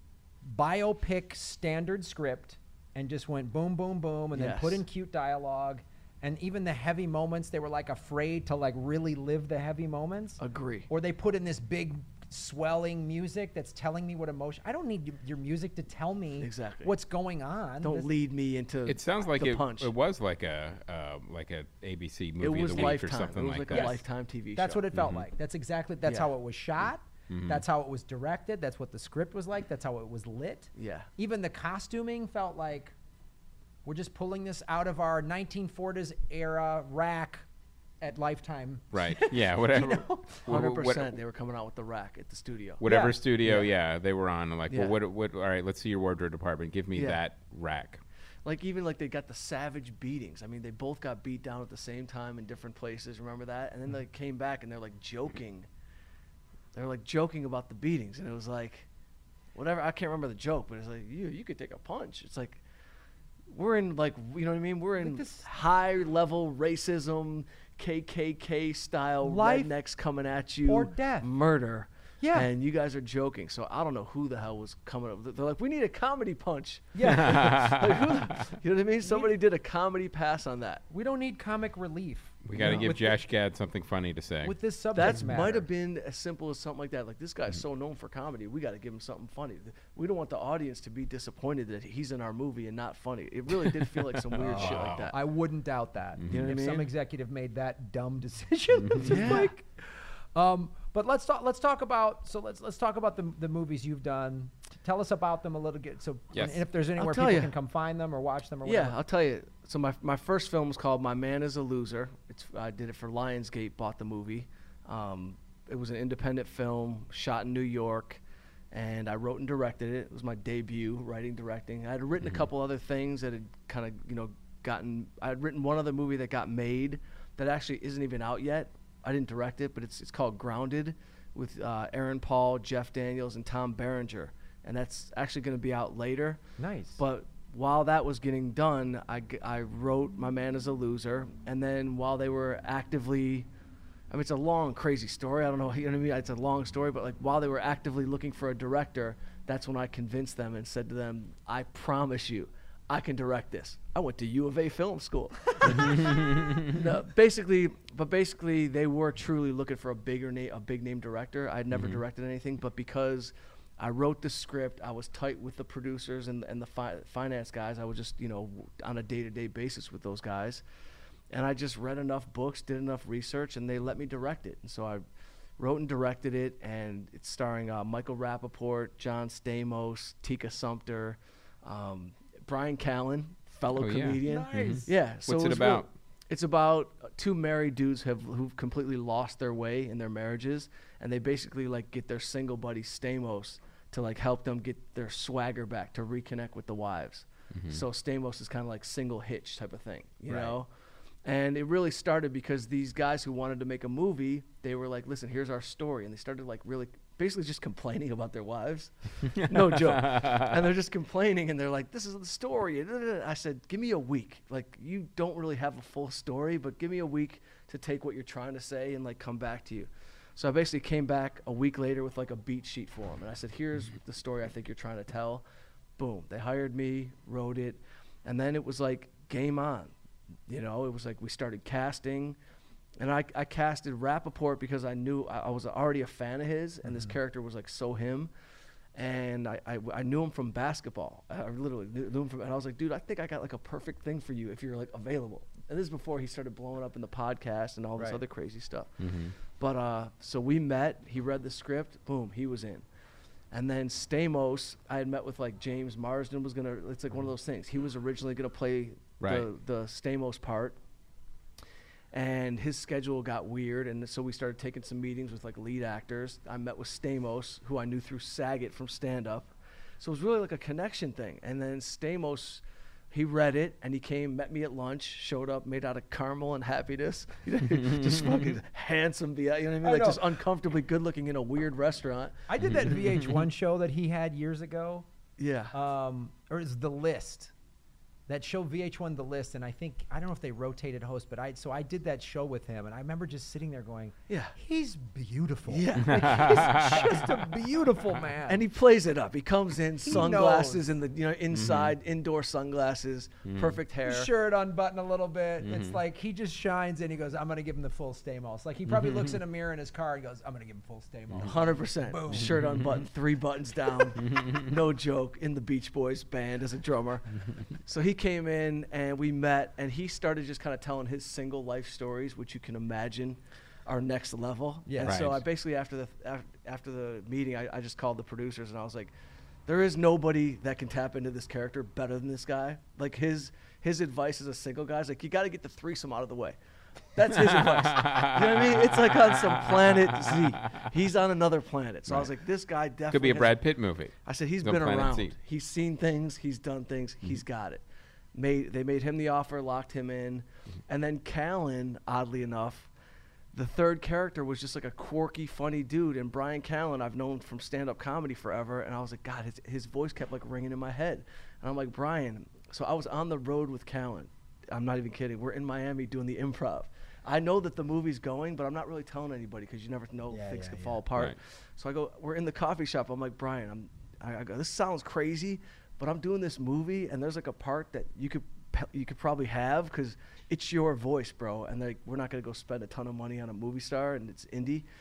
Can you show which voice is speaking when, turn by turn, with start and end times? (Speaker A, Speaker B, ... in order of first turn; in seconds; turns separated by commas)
Speaker A: 0.4-18.1, Speaker B: 4.3-4.8, Speaker B: 10.4-10.9, Speaker B: 16.4-16.9, Speaker B: 17.8-19.9, Speaker C: 18.9-23.9, Speaker B: 22.4-24.8, Speaker A: 23.7-24.0, Speaker A: 24.6-32.9, Speaker C: 24.9-25.2, Speaker B: 26.1-26.3, Speaker C: 27.3-27.6, Speaker B: 30.8-31.1, Speaker A: 33.8-37.4, Speaker A: 38.0-40.5, Speaker C: 38.9-41.2, Speaker B: 40.4-42.8, Speaker C: 42.8-48.0, Speaker A: 42.8-43.2, Speaker B: 43.4-43.7, Speaker B: 44.7-45.0, Speaker B: 46.9-47.2, Speaker B: 48.4-55.7, Speaker B: 56.7-58.9, Speaker B: 59.5-62.6, Speaker B: 63.5-80.8, Speaker A: 65.0-65.5, Speaker A: 69.2-69.7, Speaker A: 70.7-71.3, Speaker A: 72.2-72.5, Speaker A: 76.9-77.5, Speaker C: 77.0-78.3, Speaker A: 79.0-79.3, Speaker A: 80.9-83.2, Speaker C: 82.4-84.5, Speaker B: 82.5-82.9, Speaker A: 84.4-85.7, Speaker B: 84.9-95.1, Speaker C: 94.3-95.1, Speaker A: 94.4-109.0, Speaker C: 96.2-96.5, Speaker B: 96.3-96.9, Speaker C: 98.8-99.1, Speaker B: 99.0-99.5, Speaker C: 106.3-106.6, Speaker B: 107.0-107.5, Speaker B: 108.6-118.2, Speaker B: 118.7-136.4, Speaker A: 136.6-137.0, Speaker B: 137.0-143.5, Speaker B: 144.1-170.6, Speaker C: 155.6-156.8, Speaker C: 161.7-162.0, Speaker B: 171.3-175.0, Speaker B: 175.6-200.7, Speaker C: 183.7-185.9, Speaker A: 184.2-184.9, Speaker C: 197.5-197.8, Speaker B: 201.2-225.4, Speaker C: 209.3-210.6, Speaker B: 226.0-229.9, Speaker B: 230.5-232.3, Speaker B: 233.0-238.3, Speaker B: 238.9-249.1, Speaker C: 249.0-249.3, Speaker B: 249.6-252.8, Speaker B: 253.5-260.8, Speaker C: 259.2-259.5, Speaker B: 262.1-282.4, Speaker A: 279.8-280.2, Speaker A: 282.5-285.1, Speaker C: 282.7-283.3, Speaker B: 285.4-285.7, Speaker A: 285.7-287.5, Speaker A: 288.3-298.6, Speaker B: 294.3-294.5, Speaker B: 295.7-297.1, Speaker C: 296.0-297.4, Speaker B: 298.5-304.3, Speaker A: 300.1-300.9, Speaker C: 301.5-301.9, Speaker C: 303.5-303.8, Speaker A: 304.1-312.7, Speaker C: 305.6-306.0, Speaker C: 308.9-309.4, Speaker B: 311.4-329.1, Speaker C: 312.4-313.0, Speaker C: 314.3-314.6, Speaker A: 324.9-325.2, Speaker C: 325.1-325.4, Speaker B: 329.7-336.6, Speaker B: 337.1-343.6, Speaker C: 337.3-340.5, Speaker C: 343.1-345.3, Speaker B: 344.2-347.8, Speaker B: 348.3-352.9, Speaker B: 353.5-384.8, Speaker A: 370.3-371.0